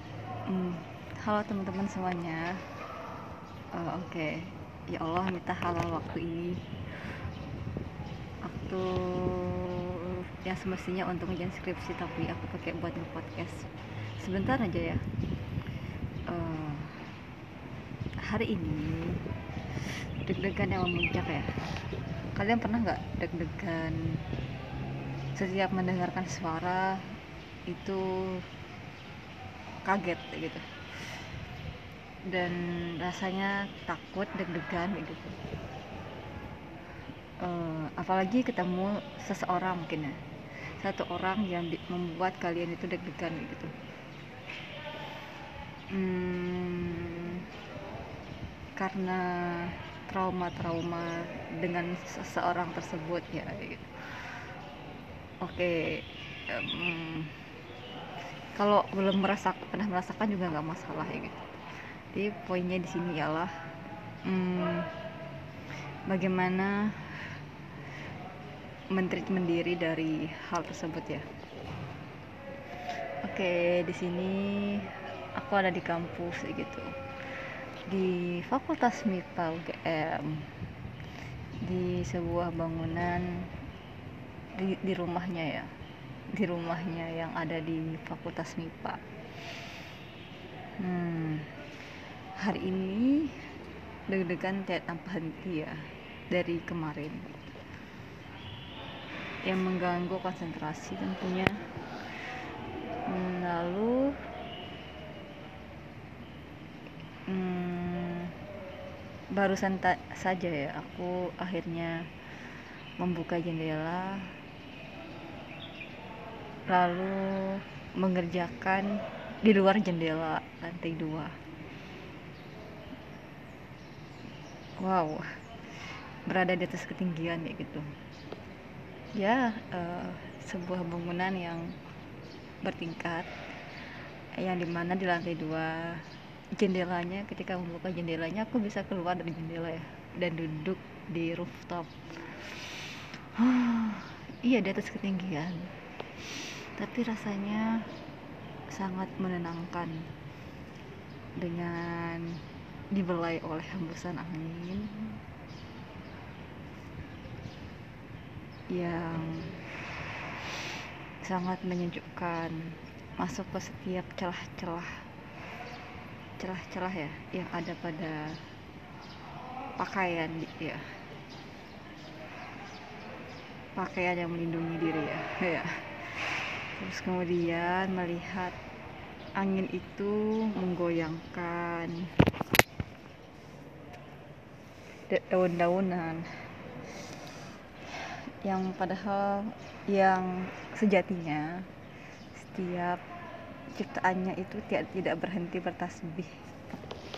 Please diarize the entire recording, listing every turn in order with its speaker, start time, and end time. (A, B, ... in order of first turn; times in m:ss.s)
0:00.5-0:02.6 A
0:03.7-0:06.6 A
0:08.4-0:15.0 A
0:16.3-0:17.0 A
0:18.2-0:19.2 A
0:20.2-0:21.5 A
0:22.4-0:24.0 A
0:25.4-0:27.0 A
0:27.7-0:28.4 A
0:29.8-0:30.6 A
0:32.3-0:35.4 A
0:37.4-0:40.2 A
0:40.8-0:43.7 A
0:45.9-0:47.5 A
0:48.8-0:53.9 A
0:55.4-0:57.4 A
0:58.5-1:01.5 A
1:02.1-1:03.5 A
1:04.2-1:04.9 A
1:06.1-1:07.3 A
1:08.9-1:11.2 A
1:13.2-1:16.9 A
1:17.8-1:20.5 A
1:21.6-1:23.5 A
1:24.5-1:25.7 A
1:26.3-1:29.0 A
1:30.8-1:31.5 A
1:32.4-1:33.3 A
1:34.1-1:37.3 A
1:39.4-1:41.6 A
1:43.1-1:44.2 A
1:47.3-1:48.3 A
1:49.3-1:52.1 A
1:53.0-1:54.3 A
1:56.7-2:01.3 A
2:04.8-2:05.3 A
2:06.2-2:07.9 A
2:09.2-2:11.8 A
2:12.6-2:13.3 A
2:14.4-2:22.5 A
2:23.4-2:25.7 A
2:26.8-2:27.8 A
2:28.7-2:30.1 A
2:31.4-2:32.4 A
2:32.9-2:35.2 A
2:38.7-2:39.6 A
2:41.2-2:45.0 A
2:46.4-2:48.4 A
2:49.8-2:50.8 A
2:53.8-2:58.6 A
2:59.4-3:02.1 A
3:05.1-3:06.2 A
3:08.4-3:11.6 A
3:12.3-3:13.0 A
3:13.7-3:16.7 A